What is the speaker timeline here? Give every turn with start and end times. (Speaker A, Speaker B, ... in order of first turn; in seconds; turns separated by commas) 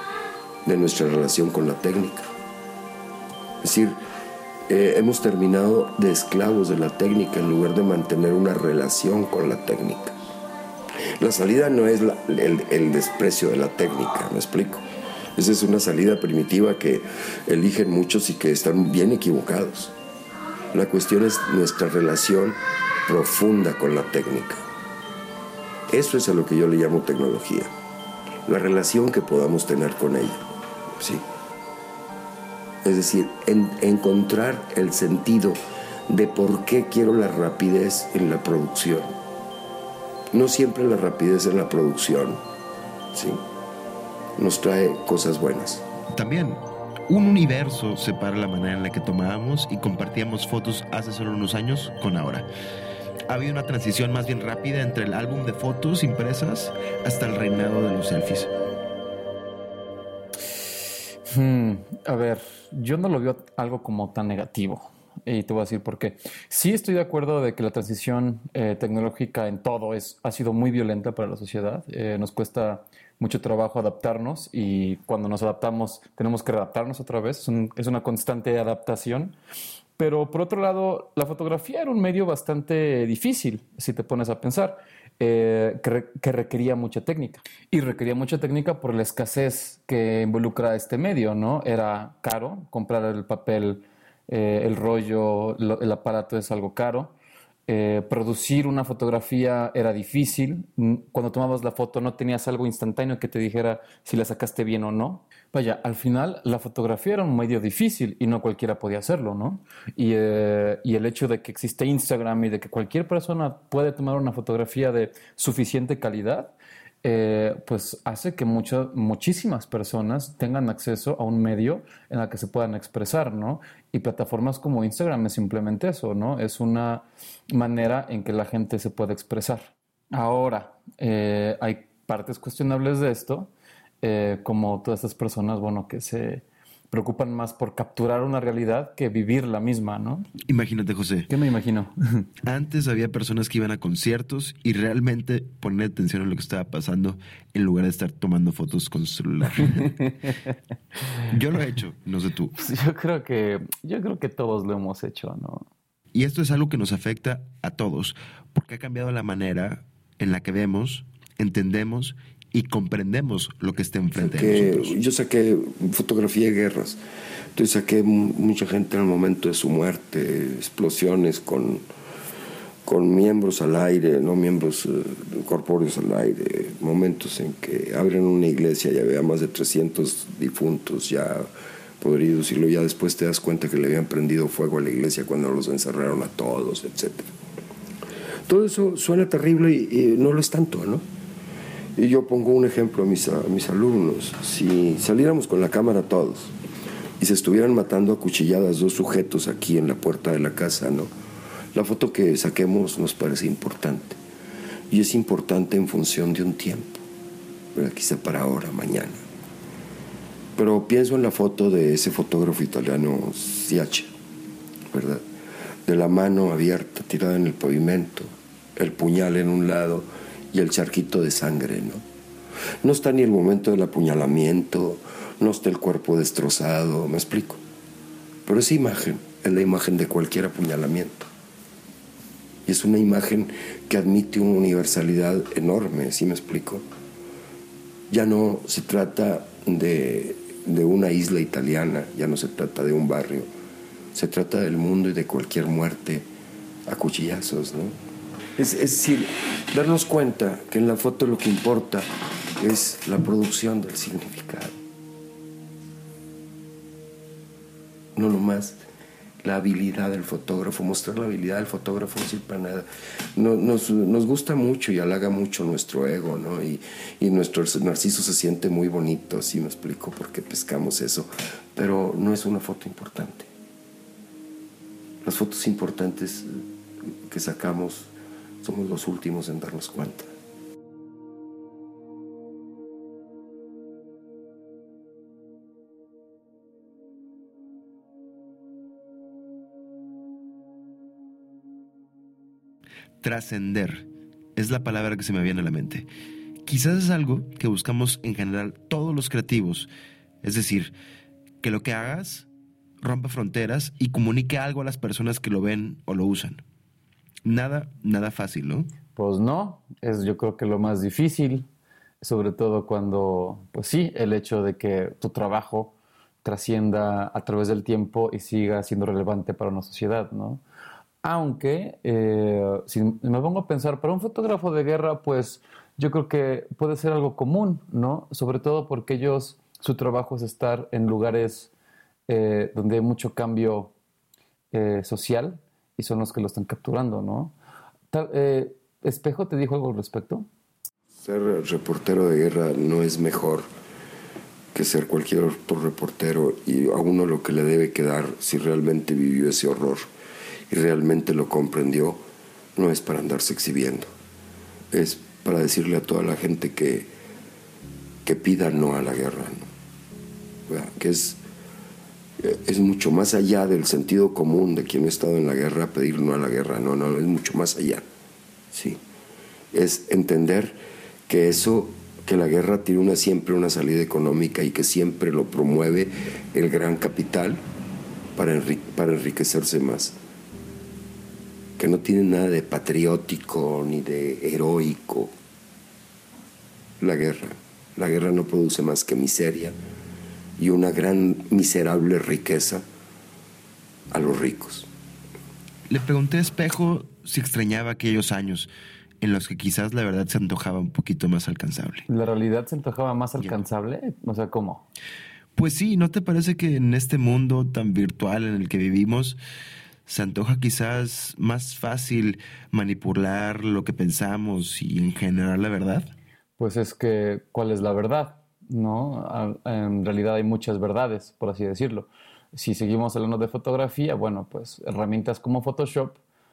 Speaker A: 0.6-2.3, Speaker A: 3.6-4.0, Speaker A: 4.7-10.2, Speaker A: 11.2-19.9, Speaker A: 20.7-24.6, Speaker A: 25.9-27.7, Speaker A: 28.5-30.4, Speaker A: 31.0-31.2, Speaker A: 32.8-39.2, Speaker A: 40.3-42.4, Speaker A: 43.1-43.4, Speaker A: 44.4-45.8, Speaker B: 46.1-52.5, Speaker B: 53.3-58.5, Speaker C: 61.3-79.3, Speaker C: 80.0-97.1, Speaker C: 97.7-133.5, Speaker C: 134.0-140.3, Speaker B: 140.5-141.3, Speaker C: 141.3-142.2, Speaker B: 142.4-150.1, Speaker B: 151.3-152.6, Speaker C: 152.6-155.7, Speaker B: 156.1-164.9, Speaker A: 164.1-167.0, Speaker A: 167.6-171.8, Speaker A: 172.8-181.5, Speaker A: 182.0-187.3, Speaker A: 188.4-191.0, Speaker A: 191.9-196.6, Speaker A: 197.2-201.1, Speaker A: 201.7-204.2, Speaker A: 204.9-207.0, Speaker A: 207.8-209.2, Speaker A: 210.6-214.1, Speaker A: 214.9-215.2, Speaker A: 215.9-222.0, Speaker A: 222.8-227.6, Speaker A: 228.4-231.3, Speaker A: 232.7-236.8, Speaker A: 238.1-243.5, Speaker A: 244.1-246.3, Speaker A: 246.9-248.0, Speaker A: 248.6-254.8, Speaker A: 258.1-258.8, Speaker A: 259.4-273.5, Speaker A: 275.2-276.6, Speaker A: 277.2-278.1, Speaker A: 278.6-280.3, Speaker B: 293.2-296.1, Speaker B: 296.6-299.9, Speaker B: 300.4-300.9, Speaker B: 301.6-302.5, Speaker B: 303.0-306.6, Speaker B: 307.4-308.9, Speaker C: 309.1-311.6, Speaker C: 312.2-320.6, Speaker C: 321.2-331.7, Speaker C: 332.3-333.9, Speaker C: 334.7-337.5, Speaker C: 338.1-340.5, Speaker A: 341.2-343.7, Speaker A: 344.7-350.1, Speaker A: 350.7-352.2, Speaker A: 352.8-354.1, Speaker A: 354.9-357.1, Speaker A: 358.2-359.7, Speaker A: 360.7-361.4, Speaker A: 362.4-368.1, Speaker A: 368.7-369.0, Speaker A: 369.7-377.6, Speaker A: 378.4-380.1, Speaker A: 381.8-385.3, Speaker A: 387.0-389.8, Speaker A: 390.6-392.8, Speaker A: 394.1-394.9, Speaker B: 395.9-398.7, Speaker B: 399.2-402.1, Speaker C: 402.1-404.8, Speaker B: 405.6-409.4, Speaker B: 410.1-416.1, Speaker C: 416.6-426.2